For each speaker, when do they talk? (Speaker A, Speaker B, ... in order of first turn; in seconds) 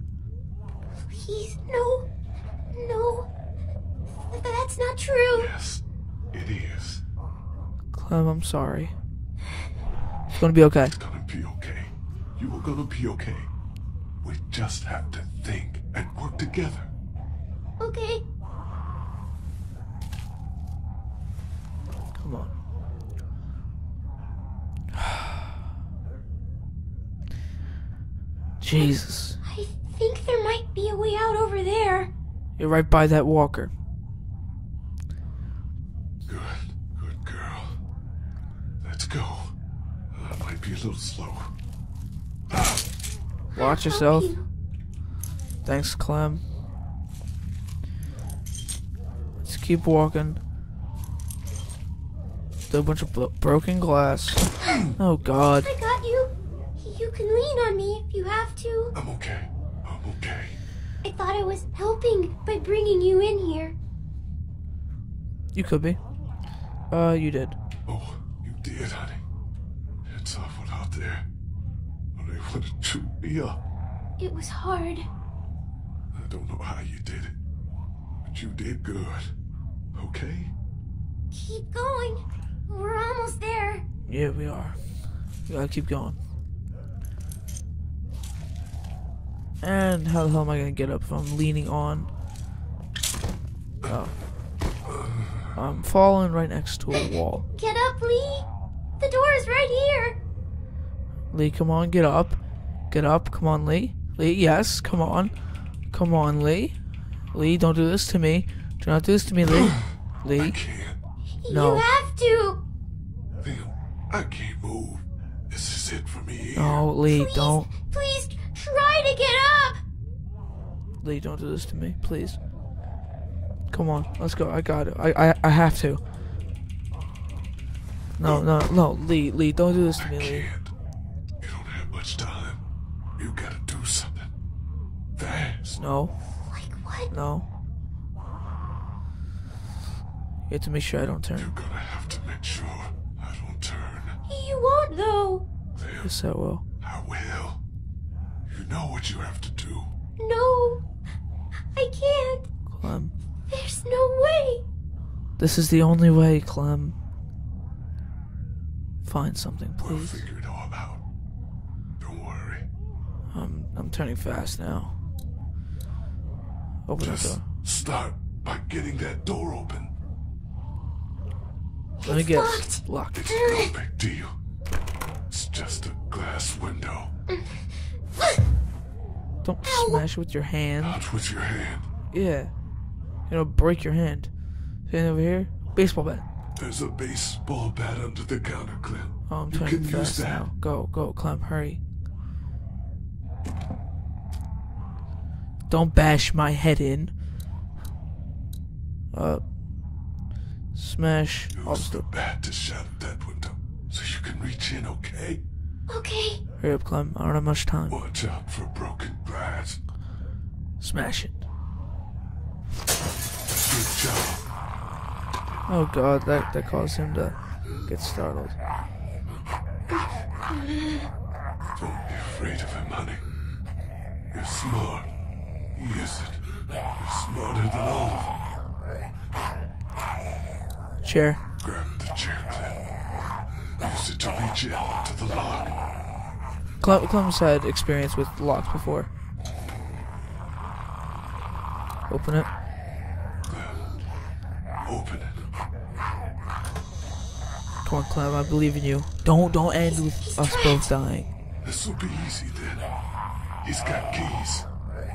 Speaker A: 1.1-2.1, 2.7-3.3, 4.3-5.5, 17.8-18.2, 28.8-32.1, 43.5-44.5, 55.6-58.9, 61.0-63.8, 74.2-75.1, 81.3-83.8, 97.6-98.5, 99.0-100.2, 111.4-112.6, 117.1-119.8, 136.5-137.1, 144.3-145.5, 150.2-150.8, 151.8-152.5, 153.5-154.6, 172.0-173.7, 177.3-177.6, 179.6-180.0, 205.9-206.4, 219.9-221.1, 249.9-250.9
Speaker B: 5.3-7.0, 10.9-13.5, 14.2-16.9, 36.2-37.8, 38.8-39.5, 40.1-41.5, 42.5-42.8, 58.9-60.6, 67.9-69.2, 70.0-71.3, 72.2-73.6, 76.1-77.4, 78.2-79.3, 79.9-80.5, 109.5-111.0, 113.4-116.9, 130.0-130.7, 131.4-132.6, 133.2-134.3, 135.2-135.8, 141.3-144.2, 145.8-146.1, 146.8-147.6, 148.5-149.9, 159.8-161.0, 162.0-162.7, 167.0-169.9, 173.1-174.3, 175.3-177.1, 180.8-181.9, 186.6-190.5, 201.5-205.4, 207.9-209.8, 213.5-214.4, 221.8-223.2, 224.3-225.1, 225.7-226.4, 227.0-228.4, 231.6-232.8, 233.8-235.8, 243.5-243.9, 244.8-245.4, 251.6-252.8, 253.6-254.7
Speaker C: 7.9-8.9, 10.4-10.9, 22.2-22.5, 25.0-25.2, 28.6-29.4, 32.6-33.7, 43.6-44.3, 45.6-46.4, 49.4-50.4, 52.7-54.5, 55.0-55.7, 65.5-66.0, 66.9-67.6, 84.1-84.8, 85.5-86.2, 89.6-92.1, 93.9-94.1, 95.5-97.5, 101.3-102.4, 102.9-105.3, 105.9-106.8, 107.3-110.6, 111.5-111.9, 116.5-117.7, 121.0-122.4, 123.7-126.0, 128.2-130.5, 135.8-136.1, 137.1-137.5, 140.5-141.5, 146.0-146.6, 152.7-153.1, 155.4-157.0, 159.1-160.2, 163.3-165.0, 166.9-167.4, 172.1-173.2, 179.4-181.0, 182.1-182.5, 183.3-184.3, 184.9-186.2, 189.3-191.8, 195.7-197.1, 199.1-199.4, 200.8-202.0, 206.6-208.0, 210.8-211.4, 215.7-218.6, 231.0-231.4, 236.8-239.1, 242.1-242.5, 247.8-251.3